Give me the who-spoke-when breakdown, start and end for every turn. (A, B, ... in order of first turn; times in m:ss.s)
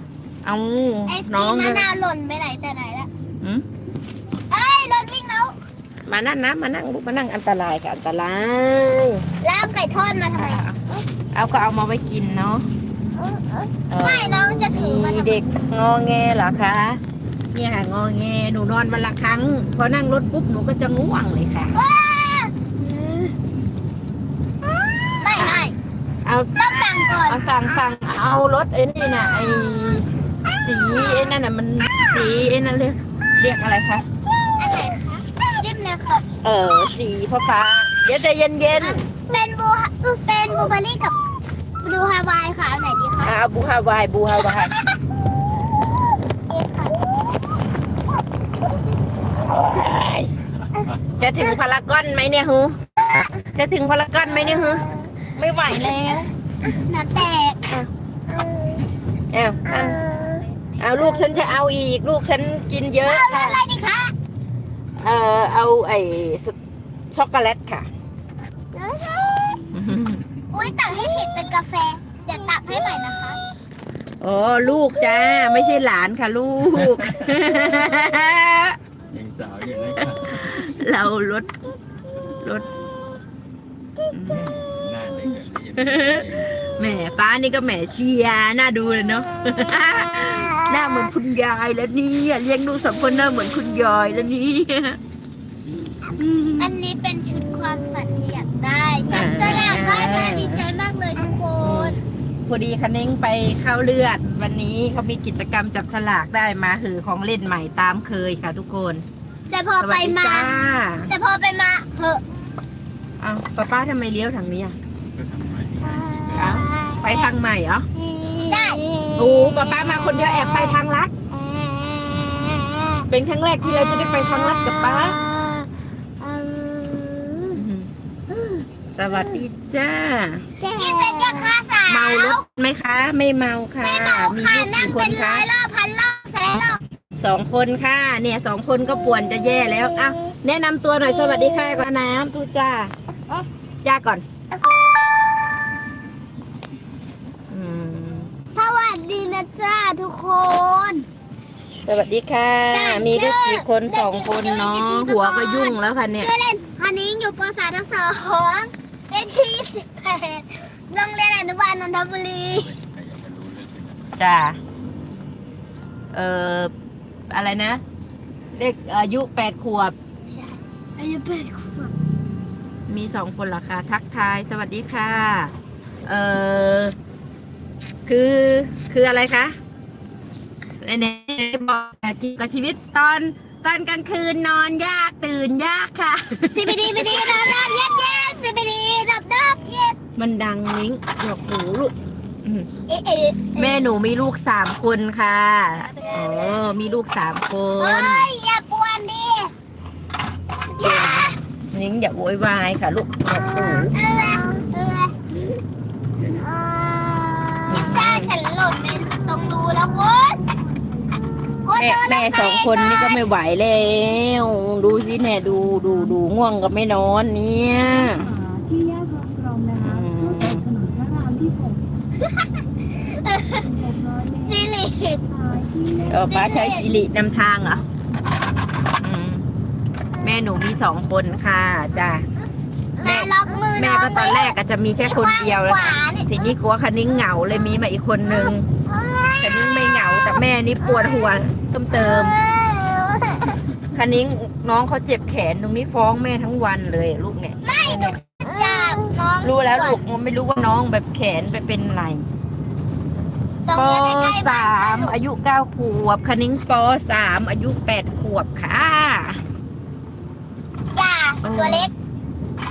0:00.4-0:01.9 A
0:01.1-0:03.1 B
0:04.5-0:05.6 B
0:06.1-0:09.2 A
0:09.4-0:10.6 B
0:10.4-0:10.8 A
0:11.3-0:12.7 A
0:13.2-0:15.5 B
0:13.9-0:17.0 A
0:17.5-0:21.8 A
0:21.7-0:23.3 B
0:25.1-0:25.8 B
0:25.4-0:25.7 A
0:26.2-0:26.5 A
0:26.6-0:27.4 B
0:27.3-0:34.0 A
0:34.6-0:36.3 B
0:36.4-0:39.0 A
0:38.8-0:41.2 B
0:41.8-0:43.4 B
0:43.2-0:44.7 A
0:46.5-0:47.0 B
0:49.5-0:50.3 A
0:51.2-0:52.8 A
0:53.4-0:56.3 A
0:56.6-0:57.6 B
0:58.3-0:58.8 B
0:59.3-1:00.0 A
0:59.7-1:00.4 B
1:00.8-1:03.6 A
1:03.0-1:04.1 B
1:05.0-1:06.6 A
1:07.1-1:07.9 A
1:08.7-1:09.7 B
1:09.7-1:10.2 A
1:10.5-1:13.4 B
1:14.2-1:18.8 A
1:19.1-1:20.5 C
1:20.0-1:21.5 A
1:22.4-1:22.7 A
1:24.1-1:24.5 A
1:24.3-1:26.6 C
1:25.8-1:35.0 A
1:36.1-1:42.0 B
1:36.2-1:36.7 A
1:39.1-1:40.6 A
1:41.6-1:49.0 A
1:49.5-1:52.2 B
1:49.8-1:51.1 A
1:53.2-1:54.8 A
1:55.1-1:56.6 C
1:56.4-1:57.3 B
1:56.4-1:57.9 A
1:58.2-2:00.7 B
1:58.7-1:59.0 D
1:59.1-2:01.1 A
2:01.3-2:03.0 B
2:03.1-2:05.2 A
2:03.8-2:05.6 B
2:06.2-2:07.5 B
2:07.5-2:07.9 A
2:08.3-2:08.6 B
2:08.9-2:10.5 A
2:10.6-2:12.4 B
2:11.9-2:15.5 A
2:13.8-2:16.8 B
2:17.2-2:22.9 A
2:19.3-2:19.8 B
2:23.8-2:24.2 A
2:27.5-2:28.3 A
2:28.5-2:31.1 B
2:31.9-2:36.3 A
2:32.7-2:42.7 B
2:42.5-2:44.2 C
2:44.2-2:44.6 A
2:46.1-2:46.7 A
2:47.3-2:47.8 A
2:48.6-2:50.0 A
2:50.3-2:51.9 B
2:52.9-2:55.5 A
2:56.1-2:57.0 A
2:58.1-2:59.6 A
3:00.8-3:07.5 A
3:06.5-3:10.0 B
3:10.2-3:11.9 A
3:12.9-3:13.8 B
3:13.6-3:18.3 A
3:17.8-3:19.5 B
3:20.8-3:21.4 B
3:20.8-3:24.0 A
3:23.3-3:25.1 B
3:26.4-3:30.4 B
3:27.7-3:28.3 A
3:31.5-3:33.2 B
3:31.8-3:38.3 A
3:38.5-3:39.8 D
3:39.8-3:40.7 A
3:40.7-3:41.8 D
3:42.2-3:43.7 B
3:44.1-3:44.4 D
3:44.4-3:45.3 B
3:45.6-3:46.0 D
3:46.1-3:47.8 A
3:46.2-3:46.9 B
3:49.0-3:49.4 A
3:50.2-3:52.2 A
3:53.0-3:56.3 B
3:53.0-3:58.7 A
3:58.5-4:01.4 B
3:59.4-4:02.4 A
4:01.9-4:03.6 B
4:03.9-4:08.2 A
4:07.6-4:10.0 B
4:09.4-4:12.2 A
4:13.7-4:15.2 B
4:13.7-4:19.4 A
4:20.9-4:21.9 B
4:21.4-4:21.9 A